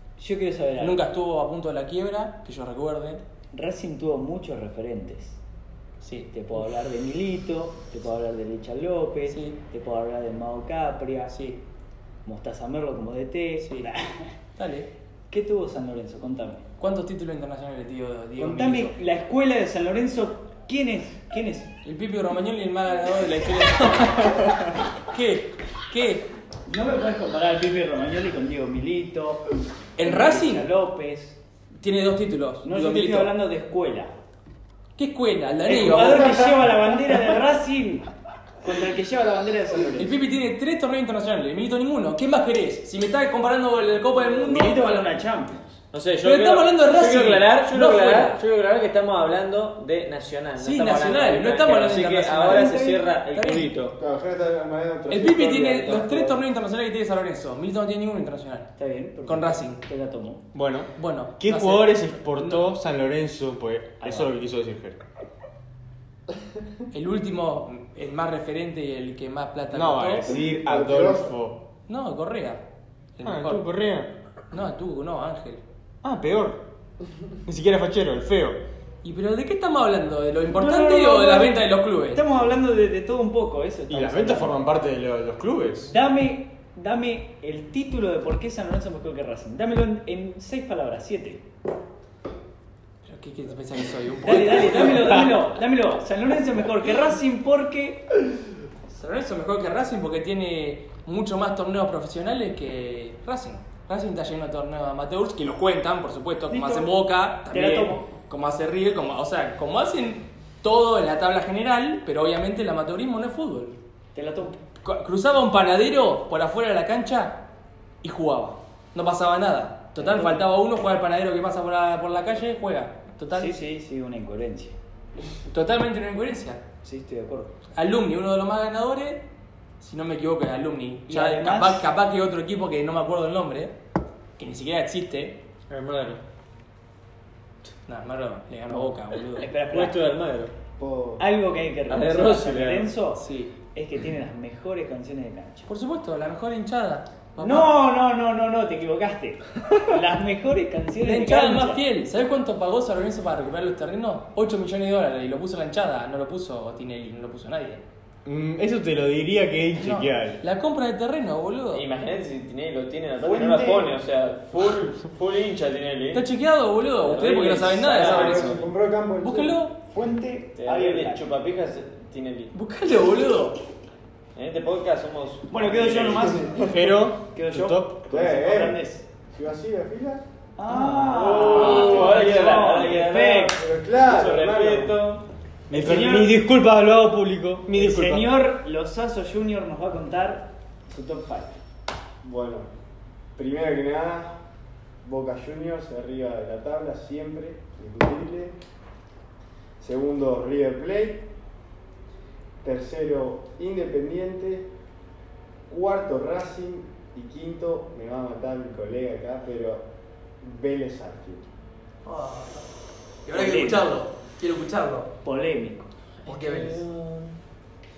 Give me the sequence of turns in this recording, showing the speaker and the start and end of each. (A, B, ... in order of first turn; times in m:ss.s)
0:00.2-0:01.0 A
0:00.8-0:03.2 B
0:03.5-0:05.4 A
0:06.0-0:06.3 B
0:06.3-0:11.4 A
0:09.3-0:09.6 B
0:11.3-0:11.6 B
0:12.2-0:14.3 A
0:13.6-0:13.9 B
0:14.6-0:14.9 B
0:15.3-0:16.6 A
0:16.8-0:19.0 B
0:18.4-0:21.7 A
0:21.8-0:26.3 B
0:26.7-0:29.4 A
0:30.0-0:30.7 B
0:30.0-0:31.4 A
0:31.8-0:33.3 B
0:32.6-0:34.1 A
0:35.0-0:36.4 B
0:35.7-0:38.1 A
0:36.0-0:36.4 C
0:38.6-0:40.2 A
0:40.0-0:45.2 B
0:44.1-0:45.8 A
0:45.9-0:54.0 D
0:46.2-0:48.4 B
0:50.6-0:52.7 B
0:52.5-0:53.0 A
0:53.3-0:53.7 B
0:54.0-0:56.4 C
0:55.1-0:58.7 B
0:58.8-1:00.4 A
0:59.3-0:59.8 B
1:00.5-1:05.0 E
1:01.0-1:02.7 B
1:04.0-1:04.3 A
1:06.9-1:10.3 B
1:09.7-1:11.6 E
1:10.2-1:11.3 C
1:11.9-1:12.6 B
1:13.2-1:13.6 B
1:13.2-1:14.1 E
1:14.5-1:15.6 B
1:16.0-1:16.6 E
1:17.4-1:18.6 E
1:19.0-1:22.2 B
1:20.5-1:24.6 A
1:23.9-1:25.9 E
1:25.9-1:31.4 A
1:33.0-1:35.4 B
1:34.2-1:38.1 A
1:38.9-1:53.8 B
1:46.5-1:46.9 A
1:47.5-1:48.1 A
1:54.2-1:54.6 A
1:54.8-1:57.4 B
1:58.0-2:03.5 B
2:00.0-2:00.4 A
2:03.3-2:04.8 A
2:05.5-2:06.6 B
2:06.8-2:07.5 A
2:07.8-2:09.2 B
2:09.8-2:13.8 B
2:11.1-2:11.8 A
2:14.4-2:15.4 B
2:15.7-2:16.2 D
2:17.9-2:19.5 B
2:19.4-2:20.0 A
2:19.6-2:20.5 D
2:20.8-2:21.2 C
2:21.2-2:25.7 A
2:21.9-2:22.9 D
2:23.2-2:23.5 B
2:25.7-2:27.7 B
2:27.4-2:31.8 A
2:31.0-2:37.8 B
2:38.2-2:40.4 E
2:39.8-2:41.8 B
2:41.7-2:46.3 D
2:43.2-2:44.0 A
2:46.1-2:48.6 B
2:47.0-2:48.2 D
2:47.9-2:49.6 C
2:48.0-2:48.5 E
2:49.2-2:49.8 B
2:49.9-2:51.3 A
2:50.6-2:52.5 D
2:52.5-2:53.6 B
2:54.4-2:56.7 D
2:55.5-2:59.1 A
2:56.6-2:58.0 E
2:58.1-2:58.8 C
2:59.3-3:00.2 C
3:00.6-3:03.6 A
3:01.0-3:05.2 D
3:01.2-3:02.3 C
3:01.6-3:02.1 B
3:03.6-3:05.0 C
3:05.7-3:06.4 A
3:05.7-3:08.3 E
3:07.7-3:11.6 A
3:12.2-3:12.7 C
3:13.4-3:14.4 C
3:15.0-3:18.6 C
3:19.8-3:21.3 C
3:22.6-3:24.7 C
3:25.7-3:29.9 C
3:30.4-3:31.5 C
3:32.0-3:32.7 B
3:33.2-3:35.1 B
3:33.3-3:33.9 A
3:35.2-3:35.9 A
3:36.2-3:36.8 B
3:36.3-3:37.4 D